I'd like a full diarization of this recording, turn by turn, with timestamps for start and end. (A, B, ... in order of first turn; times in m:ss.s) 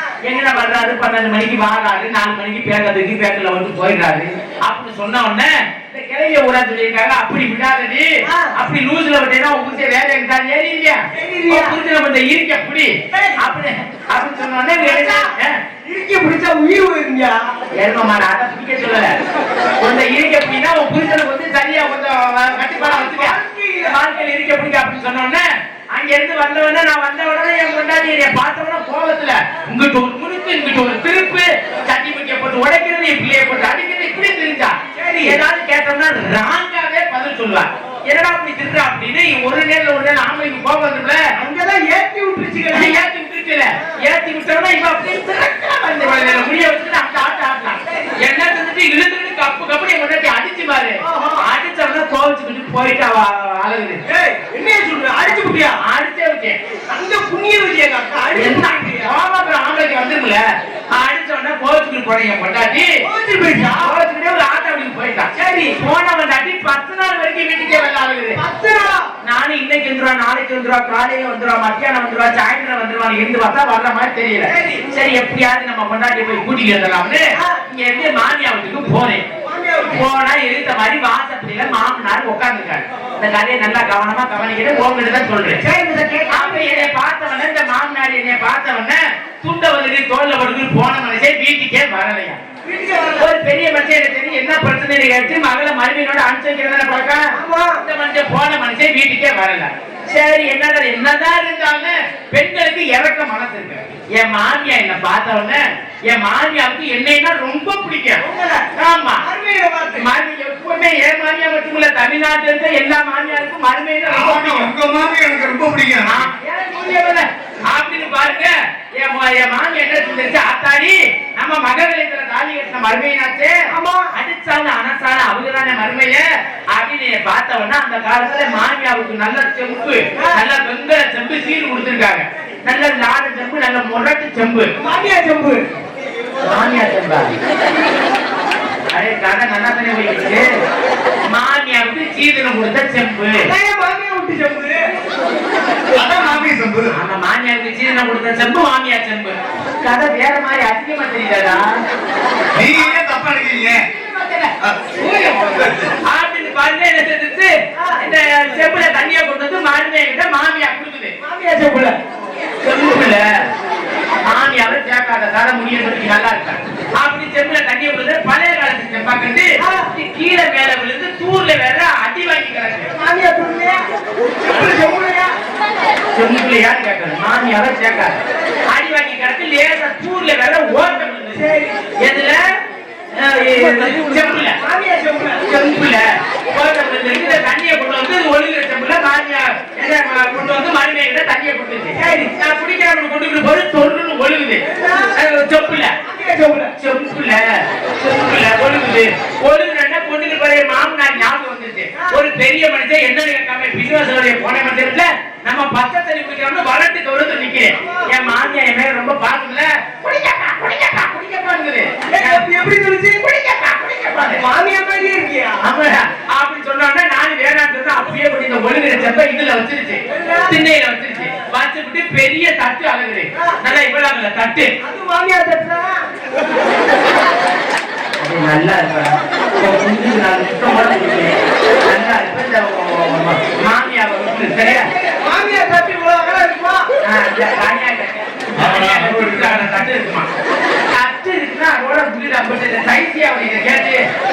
0:00.2-0:15.6 A
0:08.3-0:08.5 B
0:11.1-0:11.8 B
0:13.1-0:13.4 B
0:14.8-0:15.3 B
0:15.9-0:17.5 B
0:17.8-0:19.1 A
0:19.8-0:25.4 A
0:22.8-0:24.0 B
0:25.9-0:41.2 A
0:35.0-0:35.4 B
0:41.4-0:43.0 B
0:42.7-0:54.0 A
0:51.0-0:51.5 B
0:54.0-0:55.8 B
0:55.3-0:56.6 A
0:56.9-0:59.1 B
0:58.3-1:02.9 A
1:03.0-1:03.9 B
1:03.7-1:08.4 A
1:05.4-1:05.8 B
1:08.4-1:09.1 B
1:09.2-1:19.2 A
1:14.5-1:14.8 B
1:17.4-1:17.6 B
1:19.4-1:20.0 B
1:19.9-1:25.6 A
1:25.6-1:26.9 B
1:26.3-1:32.4 A
1:32.6-1:33.3 B
1:33.2-1:48.2 A
1:37.3-1:37.8 B
1:48.2-1:48.6 B
1:48.7-1:49.2 A
1:49.2-1:50.0 B
1:49.9-1:54.7 A
1:54.1-1:56.3 C
1:56.0-2:06.2 A
2:03.7-2:04.1 B
2:06.7-2:14.7 A
2:10.1-2:10.4 B
2:14.8-2:15.6 B
2:16.4-2:17.4 A
2:18.9-2:20.4 A
2:21.3-2:23.5 A
2:23.4-2:24.9 B
2:25.9-2:26.9 C
2:26.2-2:31.7 A
2:32.5-2:33.8 C
2:34.0-2:35.4 A
2:34.6-2:35.9 C
2:36.0-2:41.1 A
2:37.7-2:38.0 B
2:41.2-2:42.0 B
2:42.6-2:43.4 A
2:44.2-2:52.9 A
2:49.6-2:49.9 B
2:52.9-2:53.8 B
2:54.4-2:55.3 B
2:56.1-3:01.4 A
3:01.3-3:01.9 B
3:02.0-3:02.4 A
3:03.1-3:04.6 A
3:04.6-3:05.4 B
3:05.4-3:14.6 A
3:12.0-3:12.3 B
3:14.7-3:15.2 B
3:15.1-3:15.9 A
3:15.9-3:16.7 B
3:16.8-3:17.4 A
3:17.9-3:32.5 A
3:27.7-3:28.4 B
3:32.1-3:33.2 B
3:33.2-3:34.4 A
3:34.3-3:35.6 B
3:35.6-3:44.7 A
3:40.1-3:40.5 B
3:44.8-3:46.1 B
3:48.2-3:54.9 A
3:54.8-3:56.9 B
3:57.0-4:00.3 A
3:58.6-3:59.8 C
4:00.9-4:04.0 A